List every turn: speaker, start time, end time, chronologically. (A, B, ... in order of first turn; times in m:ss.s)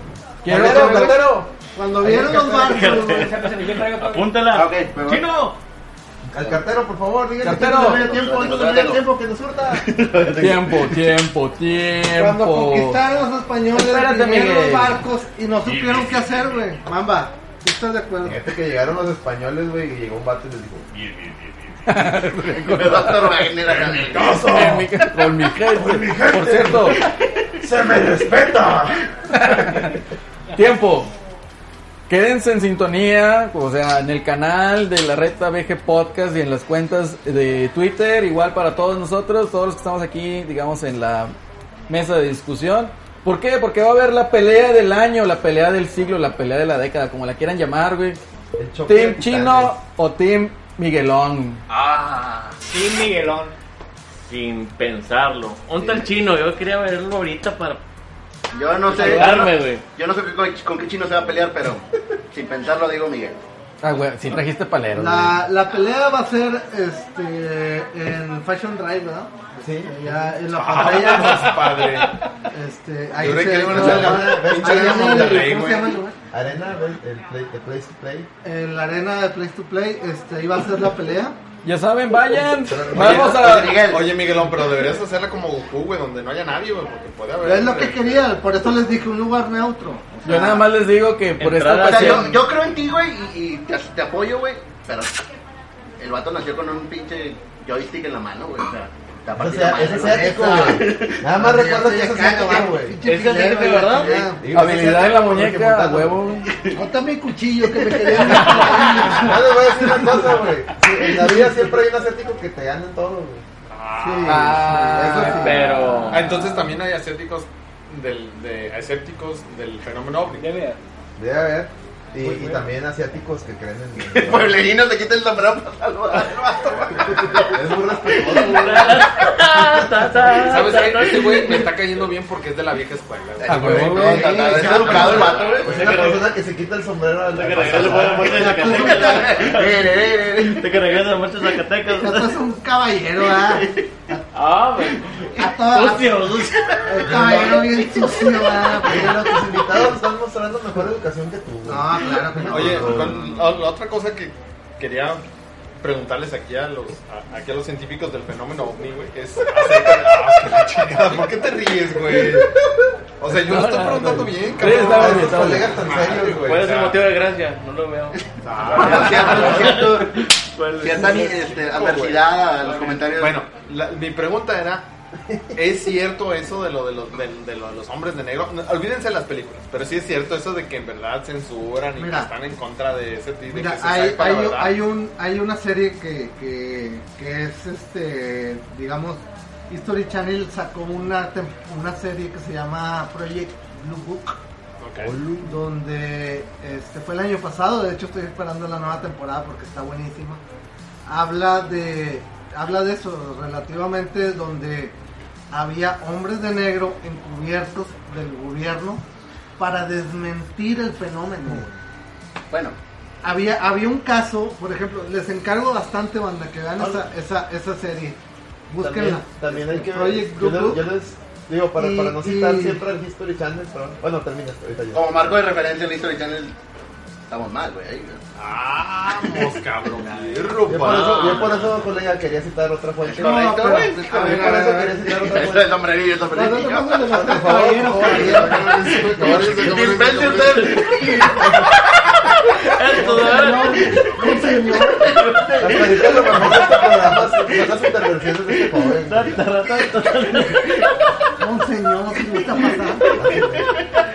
0:00.4-0:01.2 A
0:00.5-0:02.9 B
0:00.5-0:01.1 C
0:01.8-0:03.3 C
0:02.5-0:05.6 D
0:02.6-0:04.4 E
0:04.5-0:05.3 F
0:06.3-0:09.9 B
0:06.4-0:06.6 F
0:07.4-0:08.1 A
0:07.7-0:09.0 F
0:09.7-0:11.1 F
0:10.4-0:13.0 A
0:12.1-0:18.4 C
0:13.7-0:15.0 A
0:18.2-0:20.9 B
0:21.9-0:23.5 A
0:22.6-0:24.5 F
0:24.0-0:24.9 B
0:24.4-0:27.0 A
0:25.7-0:27.0 B
0:27.6-0:29.0 B
0:29.3-0:30.0 A
0:30.6-0:31.1 A
0:32.1-0:41.3 A
0:41.9-0:48.2 A
0:48.6-0:49.8 B
0:48.9-0:51.6 A
0:51.7-0:52.3 D
0:51.8-0:52.5 F
0:52.7-0:53.5 E
0:54.3-0:57.8 D
0:58.5-1:03.4 F
0:58.9-0:59.8 D
1:03.8-1:05.4 A
1:04.9-1:11.7 C
1:09.6-1:10.3 B
1:10.5-1:12.2 G
1:12.5-1:16.2 C
1:13.2-1:16.0 G
1:13.3-1:15.7 B
1:16.3-1:18.3 B
1:18.4-1:21.4 C
1:21.6-1:23.8 A
1:22.7-1:23.3 B
1:22.8-1:24.3 F
1:23.0-1:28.2 G
1:27.4-1:30.7 C
1:30.2-1:32.3 A
1:31.4-1:32.4 D
1:31.8-1:35.2 F
1:36.0-1:41.2 F
1:39.4-1:43.0 B
1:40.0-1:44.4 C
1:43.0-1:44.2 D
1:43.9-1:44.3 F
1:44.4-1:46.2 B
1:44.5-1:46.5 A
1:46.5-1:46.8 F
1:46.7-1:50.3 C
1:47.8-1:49.2 F
1:49.1-1:53.4 B
1:51.1-1:51.6 C
1:53.7-1:54.8 G
1:54.0-1:56.0 C
1:54.2-1:55.7 A
1:55.2-1:56.3 D
1:56.1-2:00.5 G
2:00.4-2:00.8 E
2:01.2-2:04.6 B
2:02.2-2:02.6 E
2:04.1-2:08.9 F
2:06.1-2:07.5 G
2:07.1-2:09.0 B
2:08.3-2:11.7 D
2:10.2-2:14.0 G
2:13.4-2:16.2 F
2:13.5-2:14.3 A
2:14.0-2:18.7 B
2:14.0-2:15.3 C
2:14.7-2:15.6 G
2:14.9-2:16.3 D
2:17.3-2:22.4 D
2:17.6-2:21.4 F
2:17.8-2:19.5 C
2:21.9-2:24.2 C
2:23.3-2:24.2 F
2:24.3-2:27.2 D
2:25.4-2:26.2 C
2:26.9-2:29.2 C
2:27.1-2:27.6 B
2:27.1-2:29.2 F
2:28.8-2:33.3 B
2:31.7-2:33.2 C
2:32.4-2:35.2 G
2:35.8-2:42.6 G
2:42.1-2:42.4 B
2:43.2-2:47.0 G
2:43.3-2:45.7 A
2:44.7-2:46.6 B
2:46.2-2:51.3 D
2:48.4-2:49.8 G
2:48.6-2:50.3 F
2:50.8-2:53.4 F
2:51.6-2:54.9 G
2:55.6-3:04.8 G
3:02.0-3:02.3 C
3:03.5-3:14.4 C
3:14.8-3:15.2 G
3:15.0-3:15.6 B
3:15.4-3:20.4 C
3:21.0-3:25.0 C
3:25.5-3:29.0 C
3:29.6-3:31.8 C
3:32.5-3:32.8 F
3:33.2-3:40.8 C
3:36.8-3:37.0 B
3:38.8-3:45.3 B
3:41.8-3:42.8 C
3:44.9-3:46.6 F
3:47.3-3:48.2 F
3:48.4-3:51.4 G
3:49.3-3:51.7 F
3:50.6-3:55.8 B
3:51.2-3:51.6 D
3:53.0-3:57.2 F
3:53.2-3:55.0 C
3:56.3-3:58.7 C
3:57.1-4:00.2 B
3:58.0-4:00.7 G
3:58.6-4:01.5 F
4:00.3-4:01.4 D
4:02.6-4:04.3 D
4:02.9-4:05.2 C
4:05.0-4:07.0 D
4:05.6-4:09.4 B
4:08.7-4:10.9 D
4:11.4-4:13.2 C
4:13.1-4:13.8 B